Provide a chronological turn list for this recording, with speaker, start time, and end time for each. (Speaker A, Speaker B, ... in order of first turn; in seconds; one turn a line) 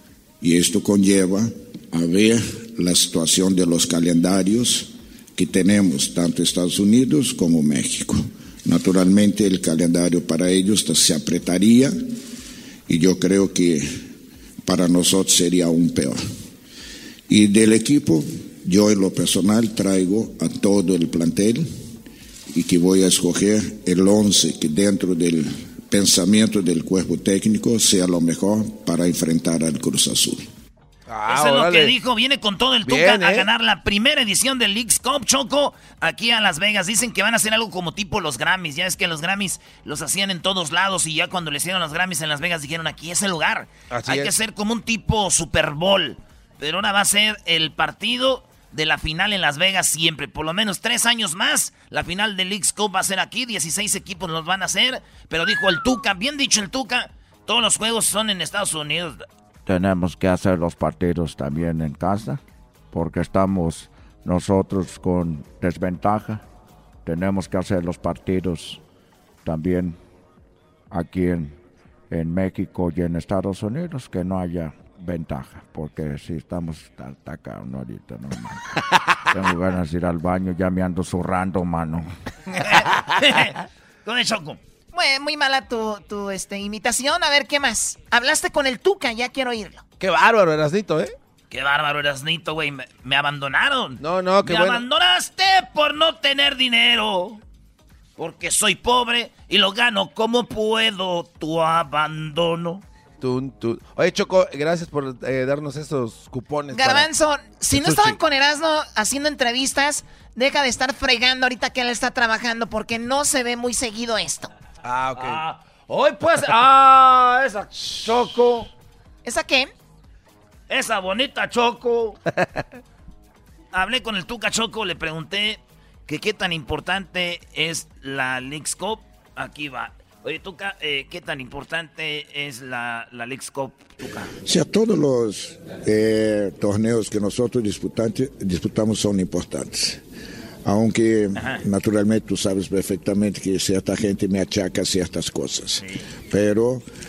Speaker A: 0.4-11.9
Speaker A: 12.9-13.9
Speaker A: 14.7-16.2
Speaker A: 17.3-21.7
Speaker A: 22.5-30.5
Speaker B: 31.1-31.9
Speaker C: 31.3-59.2
Speaker B: 32.9-33.5
Speaker B: 43.9-44.4
Speaker D: 59.7-62.4
Speaker D: 62.9-66.4
Speaker D: 67.0-68.8
Speaker D: 69.5-70.0
Speaker D: 70.9-71.6
Speaker D: 72.1-78.6
Speaker D: 79.3-82.1
Speaker C: 82.6-84.6
Speaker E: 84.9-89.8
Speaker B: 90.0-91.2
Speaker C: 91.5-97.4
Speaker B: 94.0-94.8
Speaker C: 98.2-102.8
Speaker B: 103.2-107.1
Speaker E: 106.7-114.5
Speaker B: 107.7-108.2
Speaker B: 114.8-115.4
Speaker C: 115.2-117.7
Speaker B: 117.8-118.6
Speaker E: 119.2-119.7
Speaker C: 120.7-122.2
Speaker C: 123.7-134.3
Speaker A: 134.5-140.0
Speaker A: 140.7-146.8